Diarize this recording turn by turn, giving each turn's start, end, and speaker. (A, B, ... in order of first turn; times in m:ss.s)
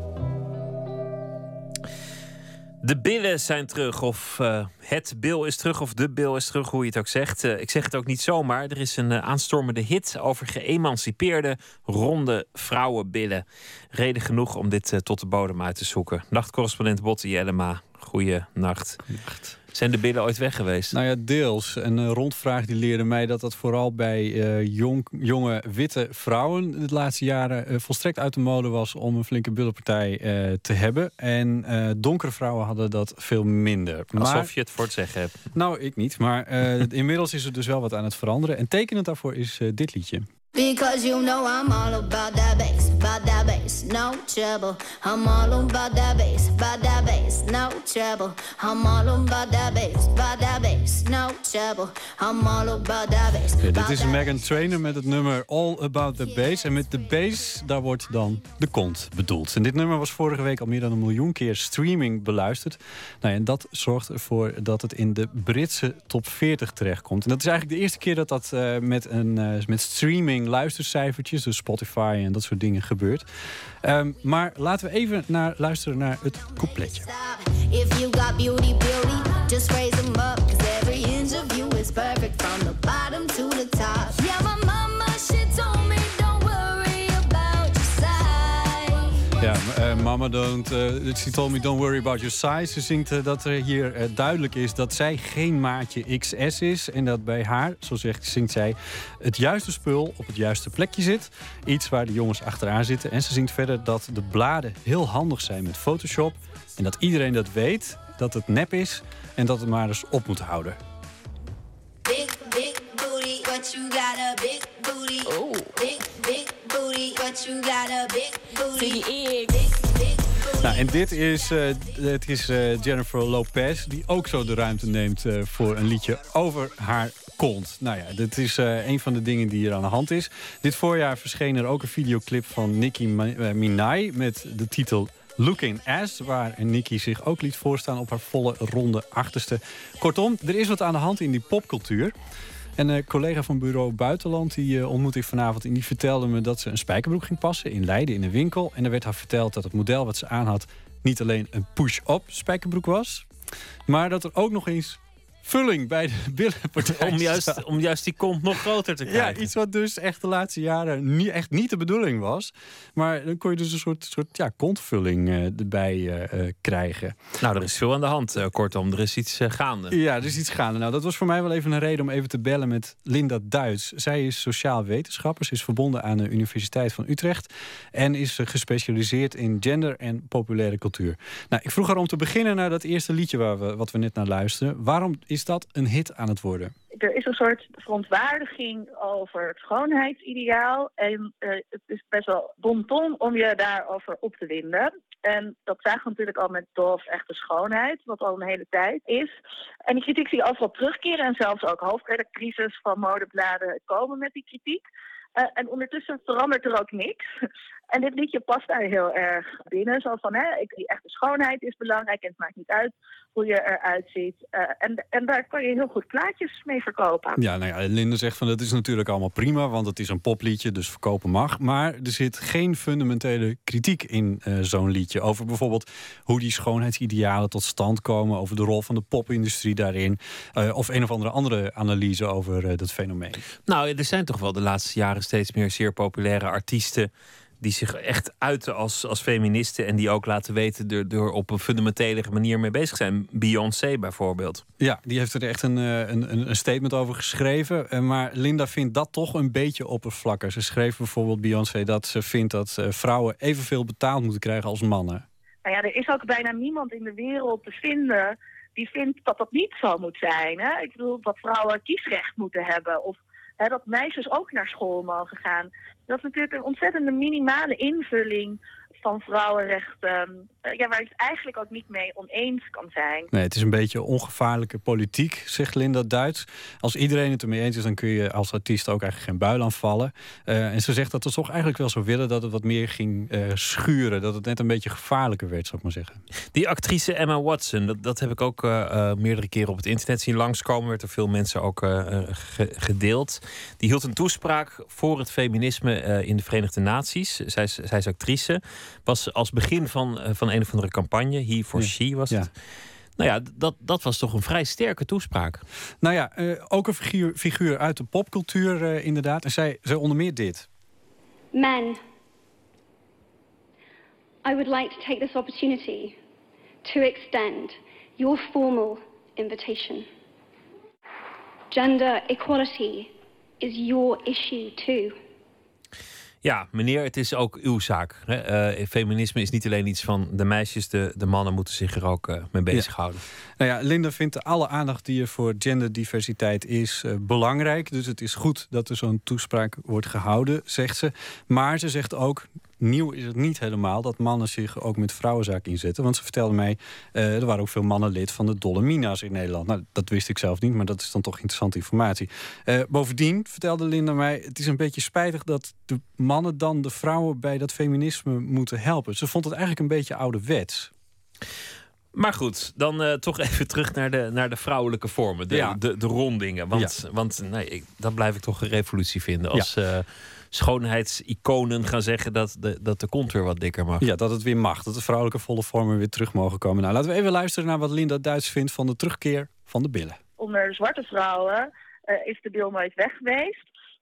0:02.8-0:21.0 A
0:20.9-0:34.5 B
0:34.2-0:35.4 A
0:35.6-0:40.3 B
0:40.5-0:54.4 C
0:53.6-1:13.3 B
1:13.8-1:17.1 B
1:16.4-1:29.1 C
1:29.4-1:50.8 B
1:52.1-2:00.8 C
2:00.6-2:22.2 B
2:22.8-2:33.3 B
2:33.9-2:37.6 B
2:36.8-2:39.5 A
2:39.1-2:47.2 B
2:47.4-2:50.0 A
2:49.9-3:06.7 B
3:07.0-3:19.3 D
3:19.9-3:24.8 D
3:25.4-3:27.2 D
3:27.9-3:37.4 D
3:37.4-3:53.4 B
3:53.6-4:04.6 A
4:04.8-4:15.2 B
4:15.6-4:33.3 D
4:33.3-4:46.2 B
4:46.5-5:02.5 A
5:01.8-5:02.5 B
5:03.2-5:05.6 A
5:06.0-5:10.7 B
5:11.5-5:12.0 E
5:14.4-5:16.2 E
5:16.8-5:20.1 E
5:21.7-5:25.2 E
5:26.4-5:33.2 A
5:33.6-6:00.9 B
6:02.1-6:14.1 A
6:05.5-6:05.8 B
6:14.0-6:20.2 B
6:20.4-6:23.7 D